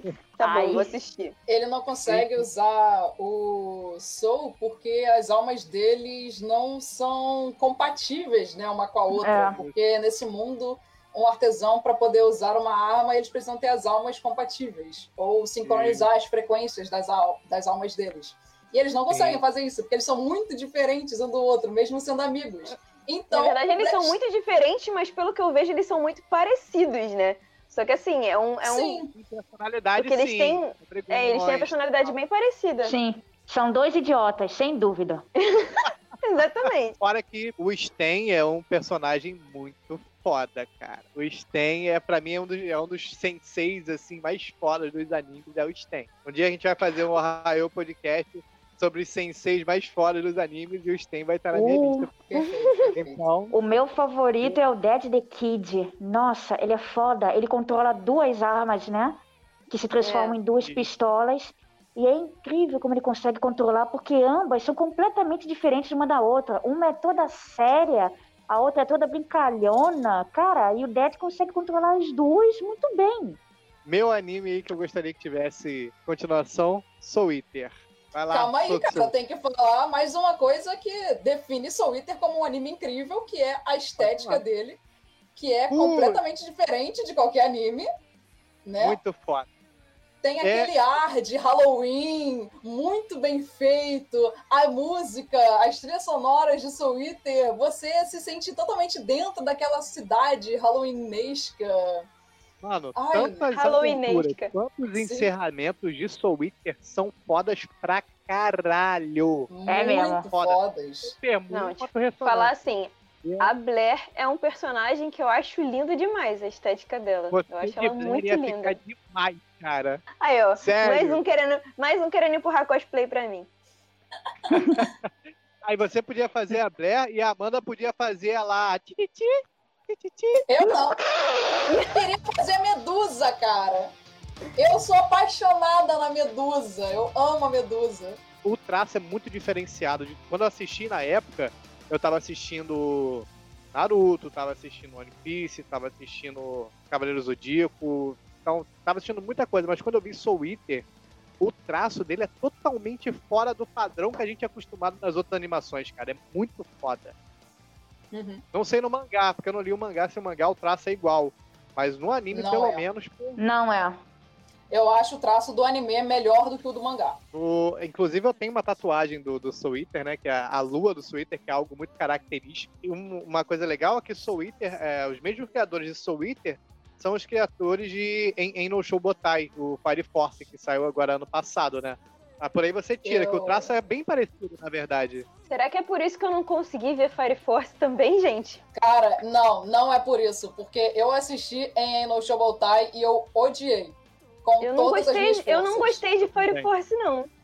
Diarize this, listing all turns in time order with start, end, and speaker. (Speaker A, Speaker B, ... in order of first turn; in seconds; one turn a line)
Speaker A: 0.4-1.3
Speaker B: 0.4-0.9
Speaker C: 1.5-24.2
Speaker D: 2.0-2.4
Speaker B: 9.2-9.6
Speaker D: 9.3-9.7
Speaker D: 15.6-16.1
Speaker D: 19.1-19.4
Speaker A: 23.3-29.0
Speaker C: 28.6-29.1
Speaker D: 29.1-32.2
Speaker A: 30.0-32.9
Speaker B: 32.8-35.2
Speaker A: 35.4-37.0
Speaker D: 37.0-52.1
Speaker B: 51.5-52.1
Speaker C: 52.3-53.2
Speaker A: 52.3-52.7
Speaker D: 52.9-53.5
Speaker B: 53.5-73.4
Speaker A: 60.0-60.4
Speaker D: 60.6-60.9
Speaker D: 73.8-79.1
Speaker C: 78.3-84.8
Speaker D: 84.0-84.4
Speaker C: 85.3-87.9
Speaker D: 85.7-86.2
Speaker C: 88.6-89.0
Speaker D: 88.8-89.5
Speaker C: 90.2-102.0
Speaker D: 90.4-90.7
Speaker D: 102.6-109.5
Speaker C: 102.9-103.5
Speaker A: 103.5-104.5
Speaker C: 104.9-105.3
Speaker C: 109.5-111.1
Speaker B: 109.7-110.2
Speaker D: 110.3-112.5
Speaker A: 111.5-118.8
Speaker D: 113.2-113.5
Speaker D: 117.3-120.0
Speaker A: 120.2-123.5
Speaker D: 120.6-121.2
Speaker B: 124.5-124.8
Speaker D: 124.8-125.1
Speaker D: 125.6-130.5
Speaker C: 130.5-131.0
Speaker C: 131.9-133.9
Speaker C: 134.5-138.2
Speaker D: 138.4-150.8
Speaker D: 151.4-157.1
Speaker C: 158.1-158.4
Speaker D: 158.5-163.4
Speaker C: 162.3-162.8
Speaker B: 163.4-164.0
Speaker C: 164.7-167.2
Speaker D: 167.3-185.3
Speaker C: 183.0-183.7
Speaker A: 185.5-188.6
Speaker C: 188.8-196.0
Speaker A: 194.6-197.3
Speaker D: 196.3-196.7